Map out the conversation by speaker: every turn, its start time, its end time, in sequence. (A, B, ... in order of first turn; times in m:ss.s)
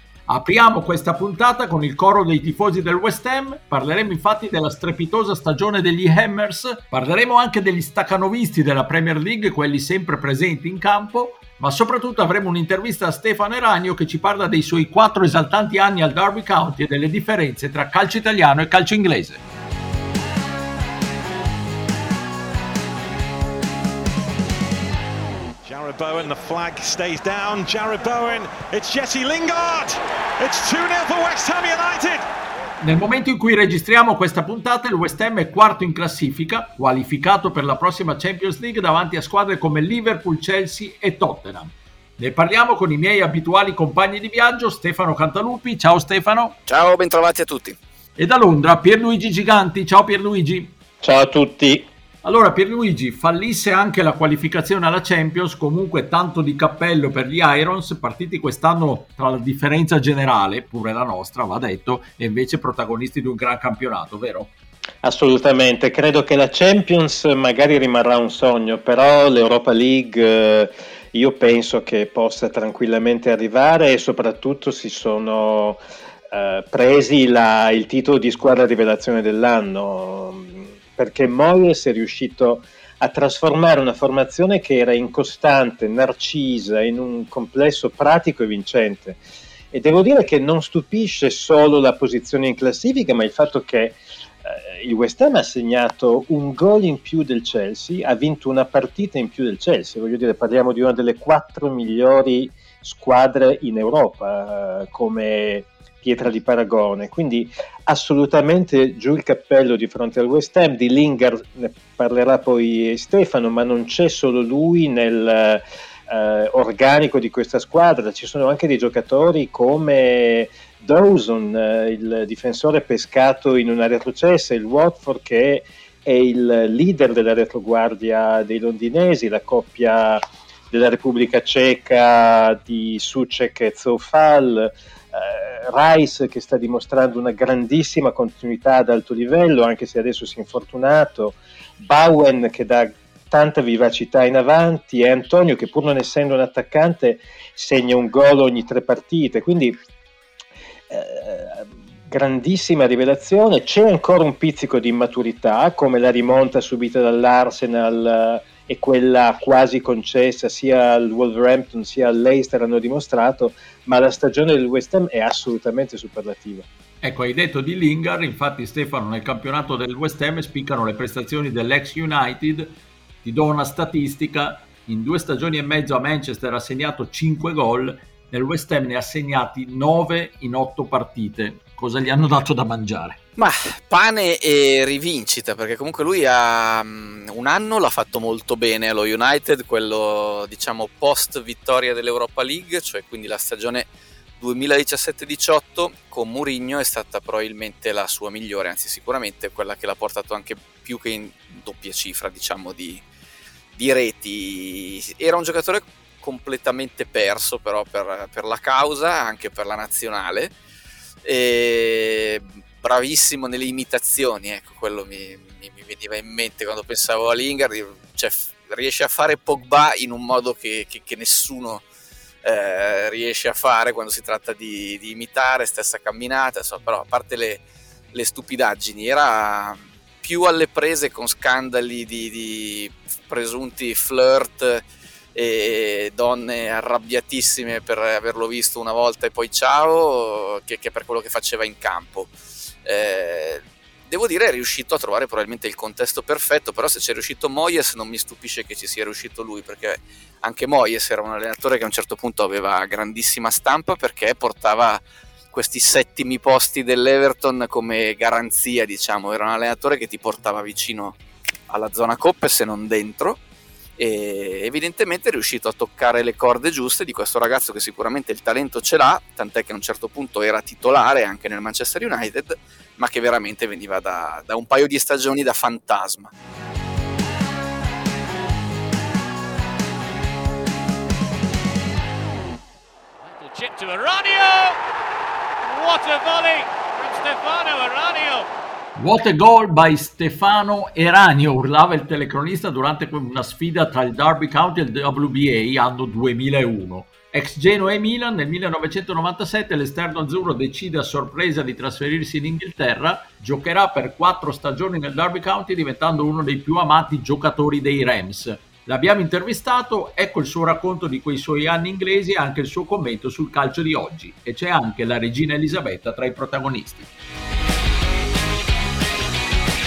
0:00.3-0:19.3 A
0:25.6-0:32.3 B
0:33.0-0:41.6 A
0:42.3-0:43.1 A
0:44.9-0:46.0 A
0:46.7-0:47.8 C
0:48.4-0:50.6 A
0:51.0-0:51.9 D
0:52.5-1:01.4 A
1:02.0-1:04.4 A
1:05.0-1:29.2 D
1:29.7-2:29.8 D
2:30.9-2:46.7 D
2:47.0-2:52.6 A
2:53.2-3:03.1 A
3:03.4-3:23.0 C
3:23.8-3:30.5 C
3:31.2-3:41.8 C
3:42.4-3:54.8 C
3:55.4-4:02.3 C
4:02.8-4:21.2 C
4:21.7-4:23.4 C
4:24.0-4:36.3 C
4:43.2-4:44.8 E
4:45.6-4:48.5 E
4:49.0-5:17.0 A